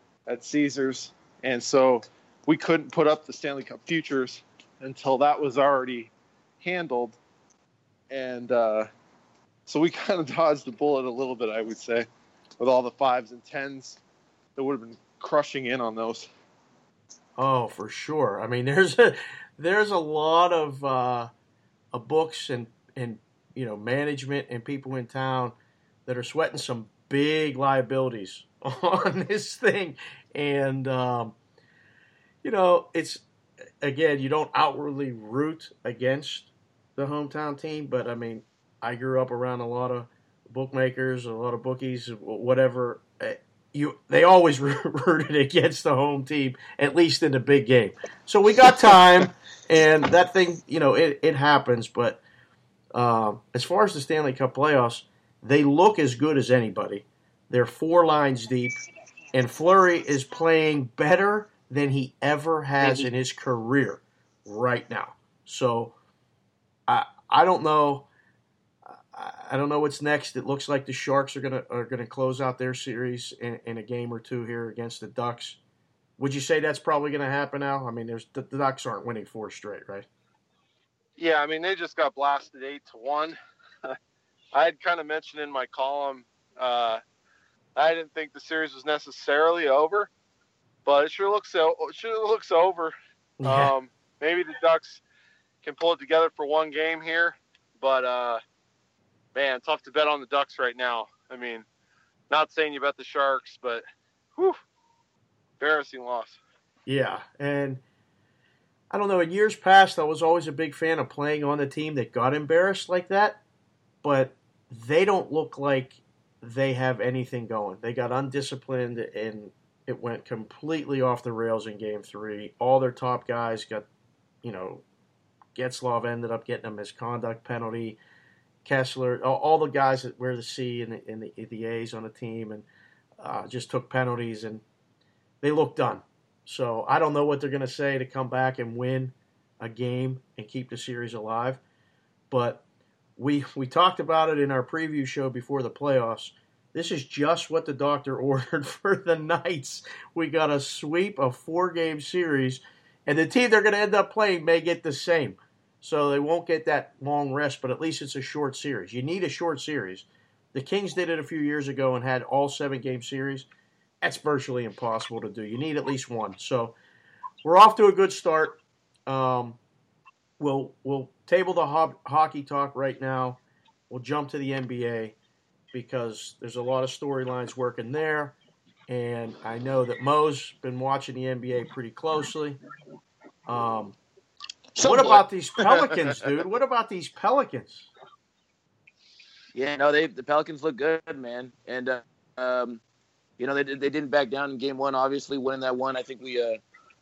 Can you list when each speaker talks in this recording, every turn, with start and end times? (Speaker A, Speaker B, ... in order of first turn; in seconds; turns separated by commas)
Speaker A: 0.3-6.1, Speaker A: 6.6-7.2, Speaker A: 8.1-8.9, Speaker A: 9.7-12.1, Speaker A: 12.6-14.0, Speaker A: 14.6-16.3, Speaker B: 17.4-21.3, Speaker B: 21.9-25.5, Speaker B: 26.1-31.4, Speaker B: 32.4-33.2, Speaker B: 33.8-52.2, Speaker B: 52.9-58.8, Speaker B: 59.3-66.0, Speaker B: 66.9-68.1, Speaker B: 68.8-75.6, Speaker B: 76.2-80.1, Speaker A: 81.2-84.0, Speaker A: 84.5-87.0, Speaker A: 87.8-90.1, Speaker A: 90.8-95.0, Speaker B: 93.4-93.7, Speaker A: 95.6-98.4, Speaker A: 99.3-101.7, Speaker A: 102.3-103.8, Speaker A: 105.6-106.4, Speaker B: 106.8-107.8, Speaker B: 108.9-113.4, Speaker B: 114.0-123.8, Speaker B: 124.4-124.8, Speaker B: 125.5-128.0, Speaker B: 128.6-132.7, Speaker B: 133.2-134.6, Speaker B: 135.4-141.6, Speaker B: 142.3-142.6, Speaker B: 143.2-163.5, Speaker B: 164.0-166.8, Speaker B: 167.4-169.6, Speaker B: 170.4-175.2, Speaker B: 175.7-178.3, Speaker B: 178.9-182.6, Speaker B: 183.5-184.0, Speaker C: 184.7-185.2, Speaker B: 184.8-187.9, Speaker C: 189.5-192.8, Speaker C: 193.4-196.6